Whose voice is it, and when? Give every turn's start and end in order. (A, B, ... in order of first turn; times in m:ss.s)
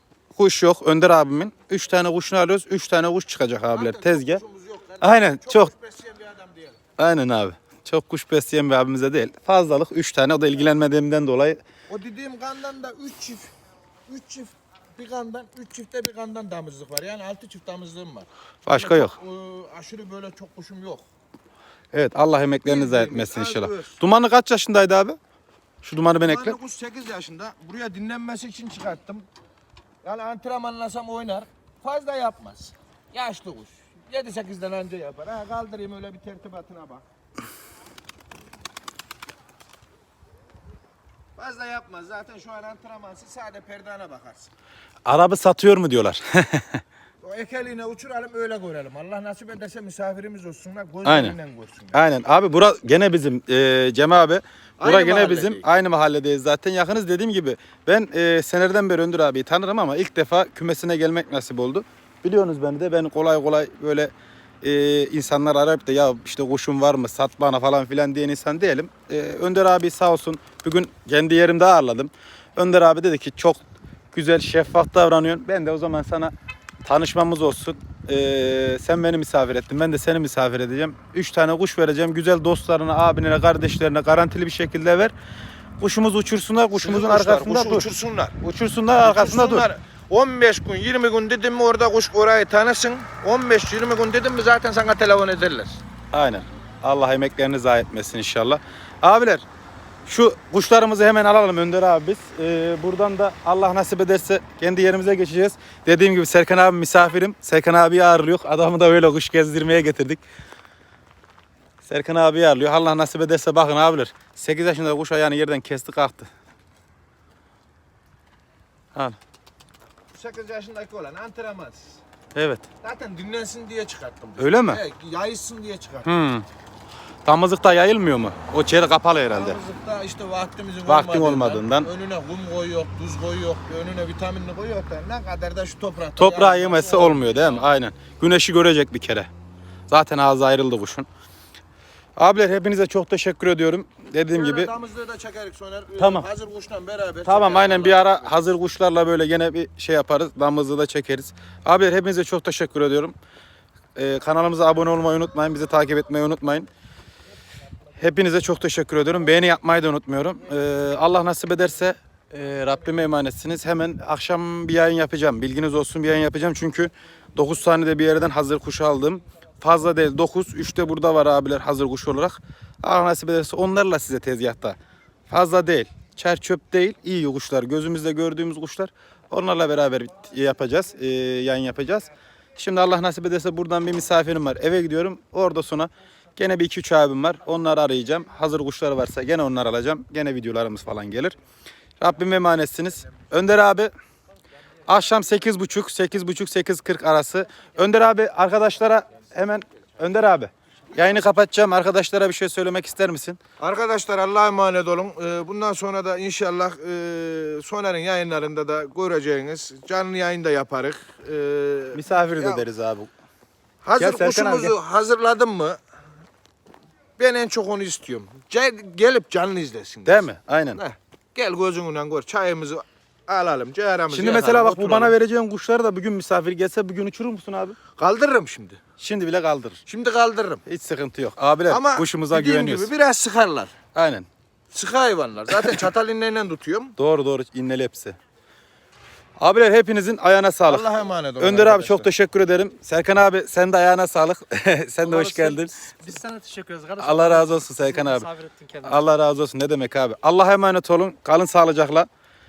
0:00.3-0:04.4 A
0:03.7-0:06.8 B
0:05.0-0:05.7 A
0:07.0-0:11.6 A
0:11.9-0:13.5 B
0:14.1-0:21.0 B
0:18.6-0:19.1 A
0:21.9-0:25.2 A
0:22.6-0:24.0 B
0:25.8-0:26.6 A
0:26.2-0:29.2 B
0:30.0-0:37.0 B
0:41.4-0:44.5 B
0:45.0-0:46.8 A
0:47.2-0:52.0 B
0:51.0-0:51.4 A
0:51.9-1:13.6 A
0:54.8-0:55.6 B
1:14.1-1:16.3 A
1:16.8-1:25.1 A
1:25.8-1:27.9 A
1:26.8-1:28.4 B
1:28.4-1:29.7 A
1:29.0-1:35.8 B
1:36.1-1:39.4 A
1:40.0-1:50.2 A
1:51.8-1:56.3 A
2:00.1-2:02.0 B
2:02.3-2:02.7 A
2:02.8-2:06.1 B
2:04.4-2:04.8 A
2:06.0-2:06.4 A
2:07.2-2:09.6 A
2:09.3-2:17.7 B
2:10.8-2:11.9 A
2:16.2-2:19.3 A
2:19.9-2:21.1 A
2:22.2-2:24.7 A
2:24.3-2:28.5 B
2:26.0-2:26.2 A
2:27.2-2:33.1 A
2:34.0-2:36.7 A
2:38.0-2:54.8 A
2:55.3-3:11.4 A
3:12.0-3:13.9 A
3:14.9-3:23.4 A
3:23.6-3:32.6 B
3:31.9-3:33.1 A
3:33.8-3:35.8 B
3:34.0-3:34.8 A
3:37.2-3:45.1 B
3:40.0-3:40.8 A
3:44.1-3:47.8 A
3:48.0-3:48.8 B
3:49.0-3:49.8 A
3:49.8-3:50.6 B
3:50.6-3:52.9 A
3:51.7-3:53.7 B
3:53.9-3:54.3 A
3:54.7-3:56.9 B
3:57.0-3:58.2 A
3:59.4-4:00.9 A
4:00.6-4:02.1 B
4:01.4-4:05.7 A
4:05.0-4:09.1 C
4:07.0-4:08.3 A
4:08.8-4:12.1 A